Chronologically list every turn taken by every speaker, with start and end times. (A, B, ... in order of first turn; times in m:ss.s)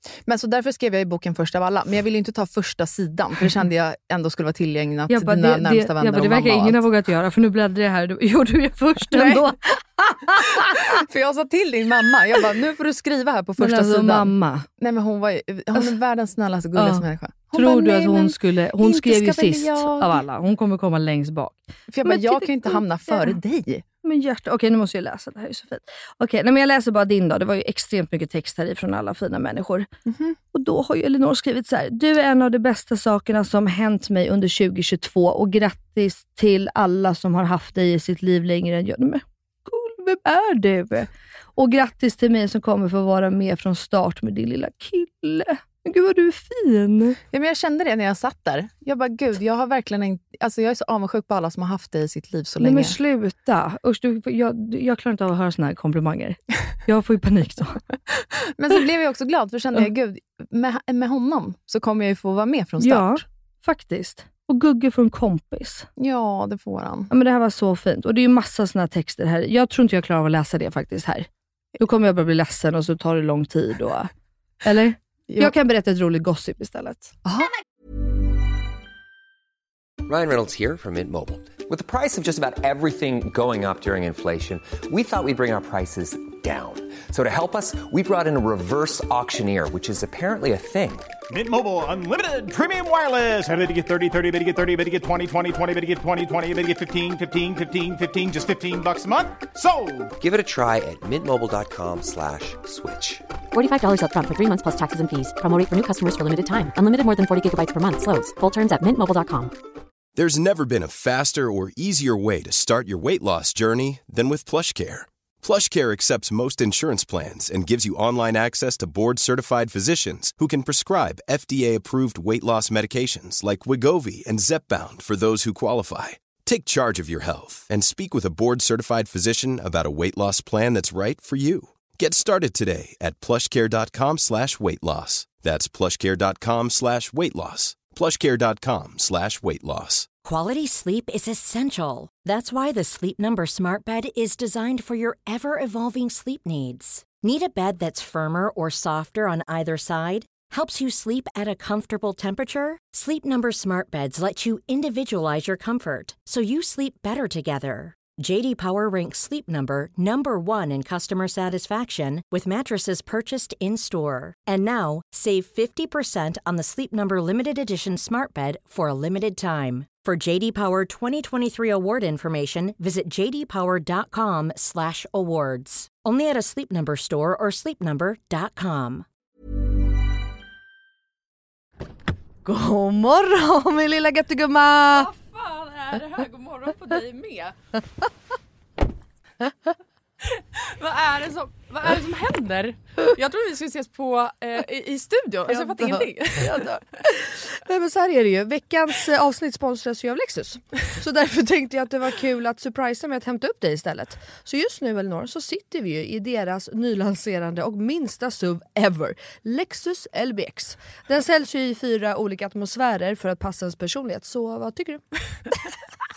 0:00.2-0:06.8 A
0:05.1-0:11.0 B
0:09.1-0:09.5 A
0:10.4-0:20.2 A
0:13.6-0:14.7 B
0:16.8-0:23.4 B
0:21.9-0:23.8 A
0:24.0-0:29.9 B
0:30.0-0:30.4 A
0:30.5-0:47.2 B
0:47.3-0:53.0 A
0:52.6-0:57.8 B
0:58.4-1:03.2 A
1:02.8-1:05.9 B
1:06.0-1:07.1 A
1:07.1-1:14.1 B
1:14.6-1:17.1 B
1:17.2-1:17.5 A
1:20.0-1:31.1 C
1:31.3-1:40.1 D
1:40.2-1:43.2 C
1:43.5-1:49.5 E
1:50.2-2:20.1 F
2:20.2-2:59.0 G
3:02.4-3:05.1 B
3:04.9-3:07.5 A
3:10.2-3:17.1 A
3:15.5-3:35.0 B